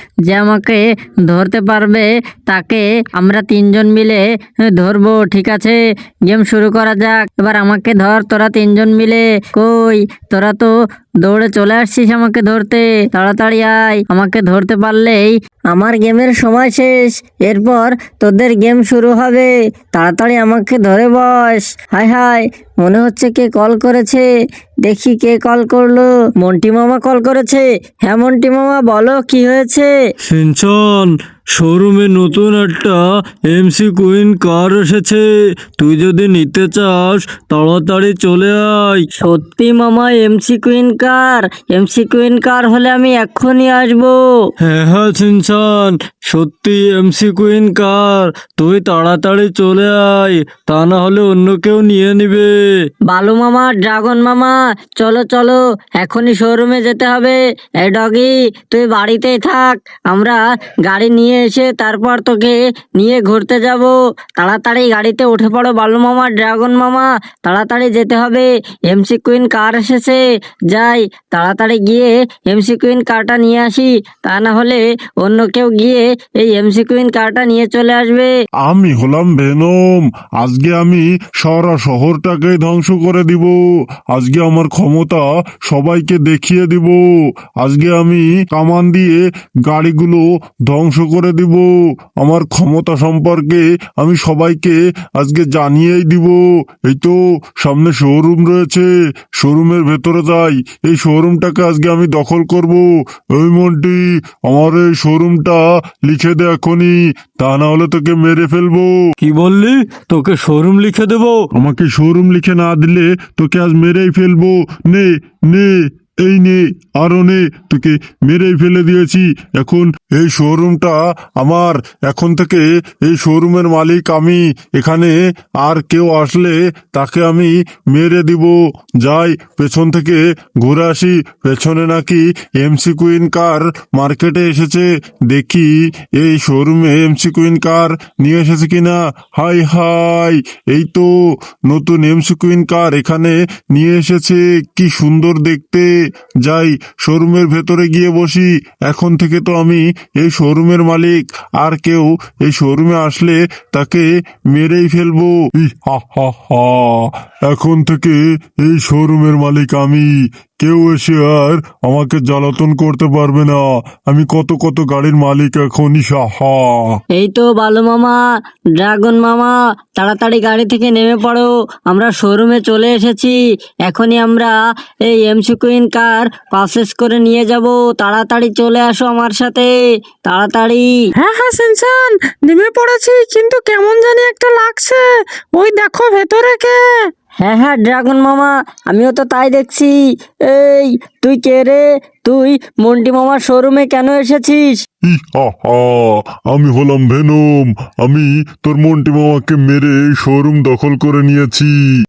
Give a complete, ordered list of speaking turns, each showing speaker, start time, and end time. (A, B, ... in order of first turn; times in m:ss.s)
0:00.3-0:24.3 A
0:24.8-0:29.9 A
0:30.2-0:39.0 B
0:39.2-0:44.3 A
0:44.6-0:52.8 B
0:53.1-1:18.3 A
1:18.6-1:23.6 C
1:24.1-1:27.0 C
1:27.6-1:49.0 C
1:49.2-1:51.5 B
1:51.5-2:21.1 C
2:21.7-2:25.9 C
2:26.4-2:47.0 C
2:47.1-2:48.2 A
2:48.8-2:59.7 A
3:00.2-3:00.9 A
3:01.2-3:07.1 D
3:07.4-3:14.8 A
3:15.0-3:21.9 C